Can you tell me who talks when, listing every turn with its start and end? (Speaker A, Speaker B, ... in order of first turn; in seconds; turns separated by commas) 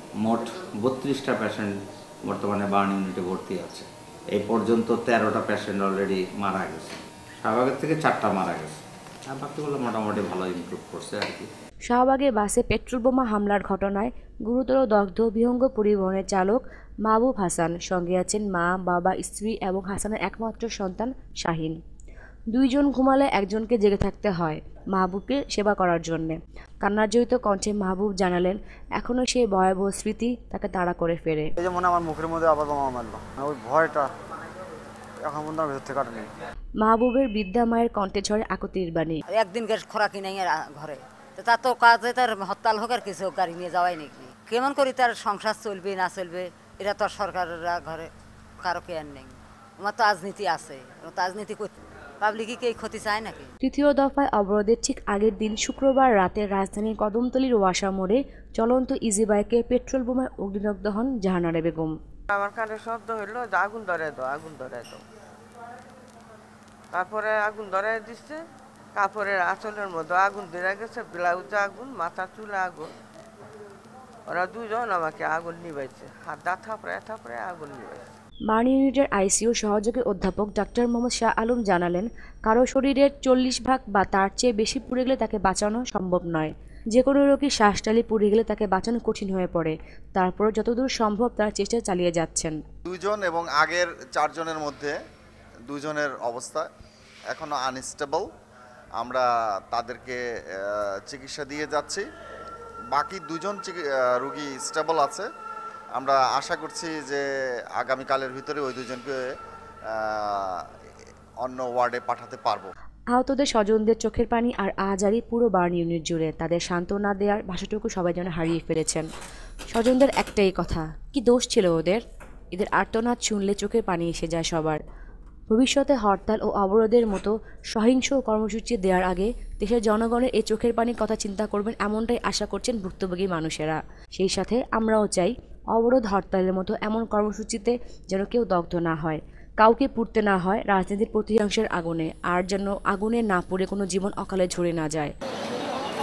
Speaker A: 0.2-11.5, Speaker B: 11.9-21.8, Speaker B: 22.5-31.5, Speaker C: 31.6-34.1, Speaker C: 35.2-36.3, Speaker B: 36.8-39.2, Speaker D: 39.3-48.1, Speaker D: 48.6-53.5, Speaker B: 53.6-62.0, Speaker E: 62.3-65.0, Speaker E: 66.9-68.4, Speaker E: 69.0-72.9, Speaker E: 74.3-78.0, Speaker B: 78.5-92.6, Speaker F: 92.8-95.0, Speaker F: 95.7-96.7, Speaker F: 97.3-98.3, Speaker F: 99.0-102.0, Speaker F: 102.9-105.3, Speaker F: 106.0-107.2, Speaker F: 107.8-109.3, Speaker F: 109.9-110.6, Speaker F: 111.4-112.7, Speaker B: 113.1-119.1, Speaker B: 119.7-124.8, Speaker B: 125.5-145.1